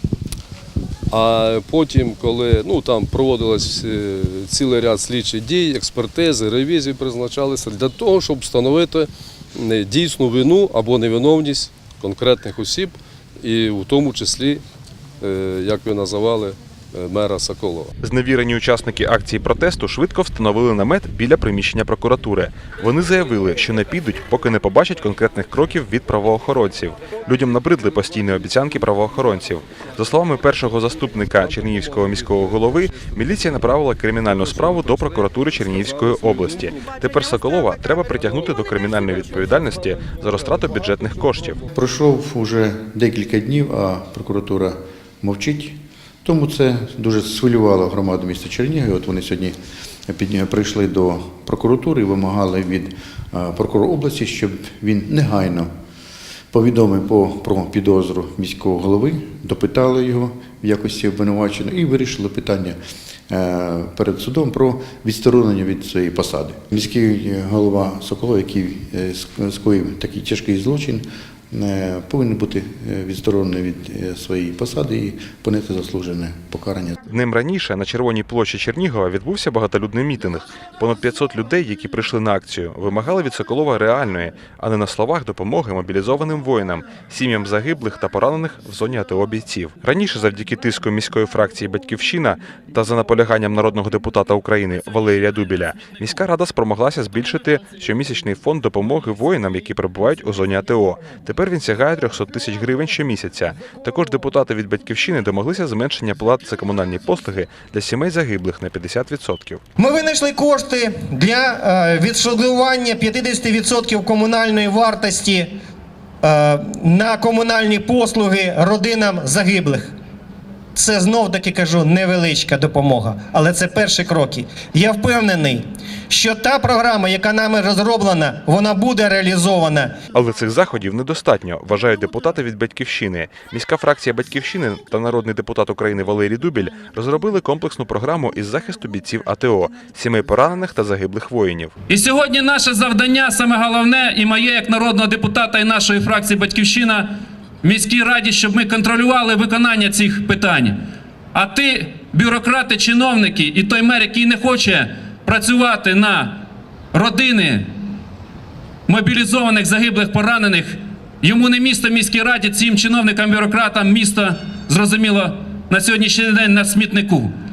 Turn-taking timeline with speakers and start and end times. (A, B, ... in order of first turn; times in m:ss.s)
0:01.1-0:14.6 A
0:15.2-0:17.9 A
0:18.0-0:41.6 B
0:41.7-0:49.6 C
0:50.1-0:55.7 C
0:56.5-1:02.8 C
1:03.3-1:17.0 C
1:17.1-1:49.6 B
1:49.8-1:55.5 D
1:56.2-1:59.9 D
2:00.7-2:09.9 D
2:10.1-2:21.7 B
2:21.9-2:27.1 E
2:27.6-2:30.8 E
2:31.3-2:37.7 E
2:38.9-2:47.3 E